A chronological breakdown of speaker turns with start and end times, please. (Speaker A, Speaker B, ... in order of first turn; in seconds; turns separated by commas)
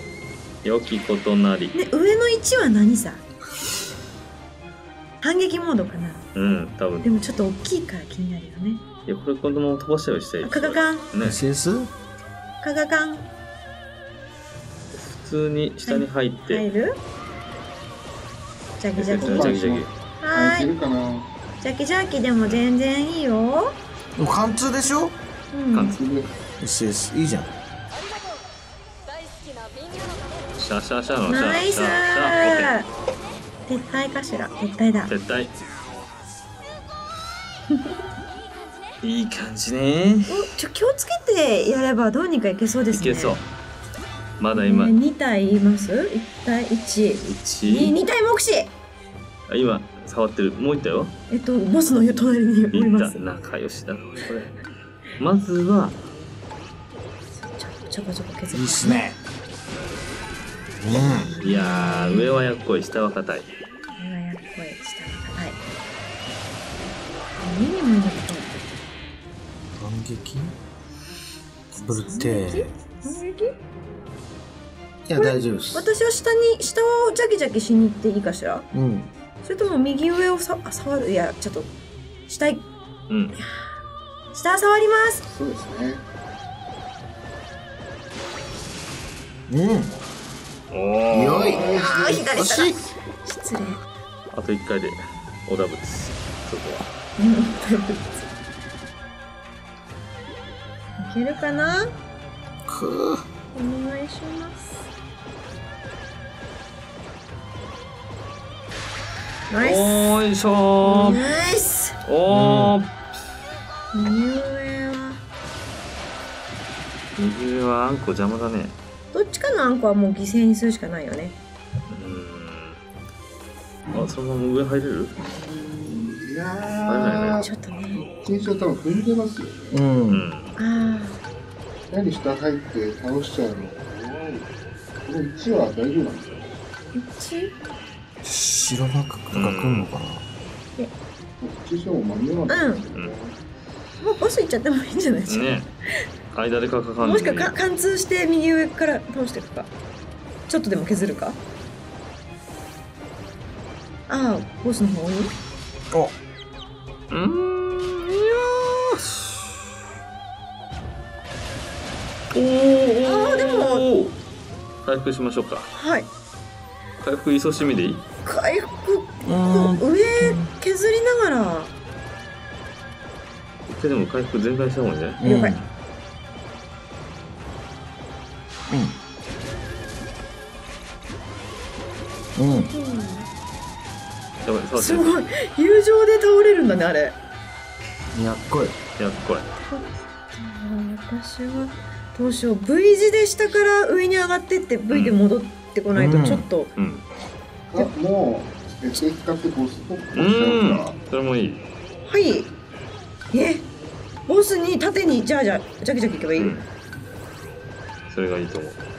Speaker A: 0.6-1.8, Speaker B: 1.7-3.2, Speaker B: 5.2-6.2, Speaker A: 6.3-7.1, Speaker B: 7.0-8.8, Speaker A: 9.1-11.4, Speaker B: 10.4-11.1, Speaker C: 11.2-11.9, Speaker B: 12.6-13.2, Speaker A: 14.9-16.6, Speaker B: 15.9-17.0, Speaker B: 18.8-19.6, Speaker A: 19.0-19.9, Speaker D: 19.2-21.3, Speaker B: 20.2-20.7, Speaker B: 21.6-23.8, Speaker C: 24.2-25.1, Speaker B: 25.5-26.0, Speaker A: 25.7-26.0, Speaker D: 26.0-26.3, Speaker C: 26.6-27.5, Speaker A: 30.6-32.7, Speaker B: 31.3-32.9, Speaker B: 33.7-35.1, Speaker A: 35.1-35.5, Speaker A: 39.0-40.5, Speaker B: 40.3-43.4, Speaker A: 42.9-43.4, Speaker A: 44.4-45.0, Speaker B: 44.5-48.7, Speaker A: 47.2-48.0, Speaker A: 49.5-51.1, Speaker B: 51.3-53.2, Speaker A: 52.7-54.5, Speaker A: 55.2-56.0, Speaker B: 57.4-59.1, Speaker C: 58.5-59.2, Speaker C: 60.8-61.3, Speaker B: 60.9-62.4, Speaker A: 61.0-63.5, Speaker B: 64.0-65.6, Speaker B: 67.4-68.7, Speaker C: 69.8-70.5, Speaker C: 71.7-72.7, Speaker B: 71.8-73.6, Speaker C: 75.1-75.9, Speaker B: 75.1-78.7, Speaker C: 78.7-79.1, Speaker B: 79.4-81.7, Speaker B: 82.3-82.7, Speaker A: 83.1-83.3, Speaker B: 84.3-85.2, Speaker D: 85.3-86.0, Speaker C: 89.5-89.9, Speaker A: 90.7-91.6, Speaker C: 91.1-91.7, Speaker D: 91.3-92.3, Speaker B: 91.6-93.8, Speaker C: 92.3-92.8, Speaker A: 94.3-96.9, Speaker B: 97.2-98.3, Speaker B: 101.0-101.9, Speaker C: 102.7-103.2, Speaker B: 103.5-104.8, Speaker B: 109.5-110.2, Speaker A: 109.6-111.2, Speaker B: 110.8-112.0, Speaker A: 112.0-112.9, Speaker C: 112.3-112.8, Speaker B: 113.9-115.2, Speaker A: 117.2-118.8, Speaker B: 119.1-121.4, Speaker A: 121.9-122.8, Speaker A: 123.9-125.1, Speaker D: 125.2-129.7, Speaker A: 126.9-127.5, Speaker B: 127.4-128.0, Speaker C: 129.7-130.2, Speaker A: 130.1-130.5, Speaker B: 130.6-131.2, Speaker D: 131.9-134.5, Speaker D: 135.1-136.6, Speaker B: 136.9-137.6, Speaker C: 138.2-140.3, Speaker A: 139.3-139.9, Speaker D: 141.4-143.3, Speaker B: 142.5-142.8, Speaker B: 144.0-145.6, Speaker A: 145.3-145.7, Speaker A: 146.3-147.6, Speaker B: 147.0-149.7, Speaker B: 150.5-151.4, Speaker B: 154.1-155.3, Speaker A: 157.1-159.6, Speaker A: 162.3-164.2, Speaker B: 163.1-163.9, Speaker A: 164.8-165.7, Speaker B: 165.8-166.1, Speaker A: 167.0-168.0, Speaker B: 168.2-171.7, Speaker C: 169.2-170.5, Speaker A: 173.7-175.2, Speaker C: 175.2-175.7, Speaker B: 175.2-175.6, Speaker C: 178.7-178.9, Speaker C: 182.4-182.7, Speaker B: 182.7-183.3, Speaker A: 184.4-185.3, Speaker B: 184.8-187.2, Speaker C: 188.1-188.8, Speaker A: 189.0-189.5, Speaker B: 189.6-196.7, Speaker A: 194.9-195.2, Speaker C: 195.9-196.5, Speaker A: 196.8-197.1, Speaker D: 197.7-200.9, Speaker A: 200.1-201.6, Speaker B: 202.1-202.5, Speaker B: 203.3-203.7, Speaker B: 204.3-206.6, Speaker A: 206.4-206.7, Speaker A: 208.1-208.8